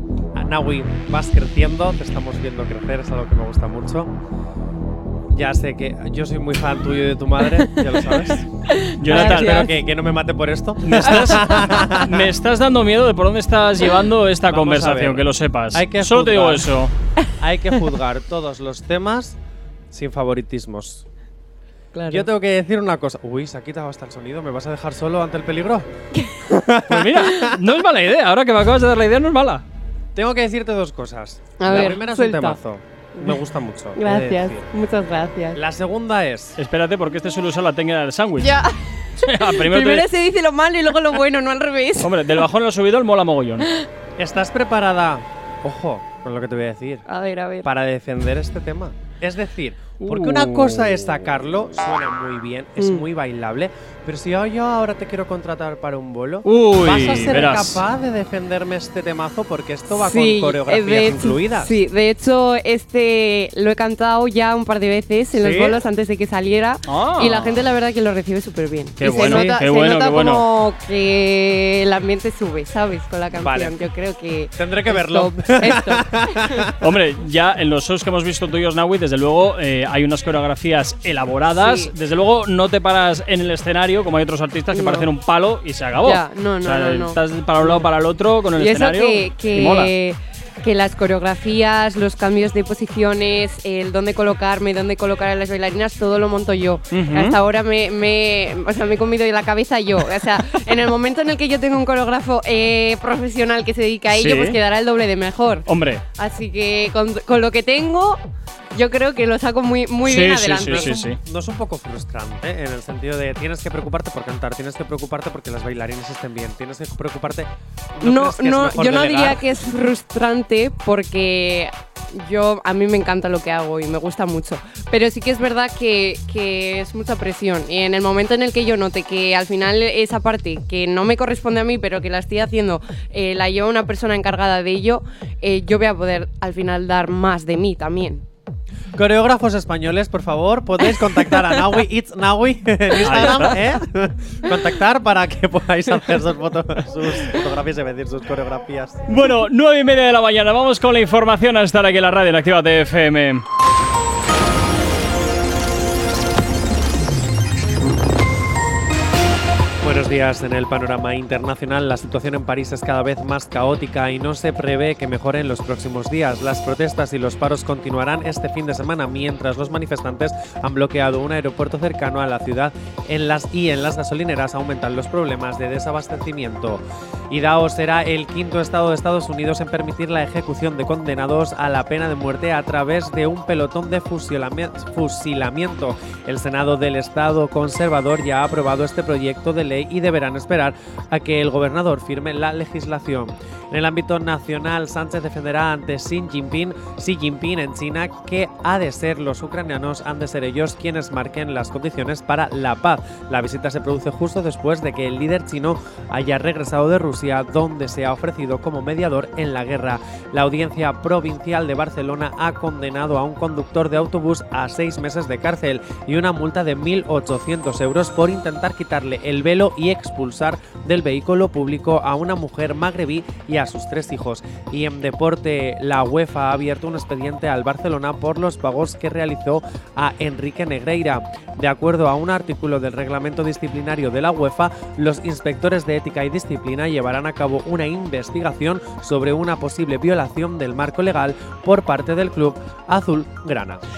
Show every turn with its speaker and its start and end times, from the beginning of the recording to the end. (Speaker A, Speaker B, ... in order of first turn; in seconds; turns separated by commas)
Speaker A: 0.3-4.1, Speaker A: 5.3-8.5, Speaker B: 8.7-9.7, Speaker C: 8.9-9.7, Speaker A: 9.1-12.3, Speaker C: 10.8-16.9, Speaker A: 14.5-16.8, Speaker A: 17.4-19.4, Speaker A: 19.9-21.1, Speaker B: 21.9-22.3, Speaker A: 22.1-25.9, Speaker B: 26.2-26.4, Speaker A: 26.5-27.6, Speaker C: 26.9-29.6, Speaker A: 30.1-34.7, Speaker B: 31.6-32.6, Speaker B: 33.2-33.4, Speaker B: 34.0-35.6, Speaker A: 35.5-36.6, Speaker C: 36.6-38.6, Speaker B: 38.4-42.3, Speaker C: 39.2-40.1, Speaker C: 42.0-43.7, Speaker A: 44.2-47.1, Speaker B: 47.1-47.7, Speaker A: 47.6-61.7, Speaker C: 50.0-51.1, Speaker B: 52.8-53.0, Speaker C: 56.5-57.8, Speaker B: 59.9-76.6, Speaker A: 65.4-65.8, Speaker C: 66.9-67.6, Speaker C: 69.0-70.5, Speaker A: 69.1-69.5, Speaker A: 73.4-73.8, Speaker A: 74.6-76.8, Speaker C: 76.8-89.9, Speaker B: 81.5-81.9, Speaker B: 84.7-85.1, Speaker B: 86.0-87.9, Speaker B: 88.6-105.7, Speaker C: 96.9-97.4, Speaker C: 104.1-104.6, Speaker C: 105.7-106.0, Speaker B: 106.2-108.2, Speaker B: 108.7-111.0, Speaker C: 110.0-111.2, Speaker A: 110.6-119.4, Speaker B: 118.0-138.2, Speaker A: 138.9-149.1, Speaker C: 143.0-143.6, Speaker C: 149.1-153.4, Speaker A: 159.8-243.8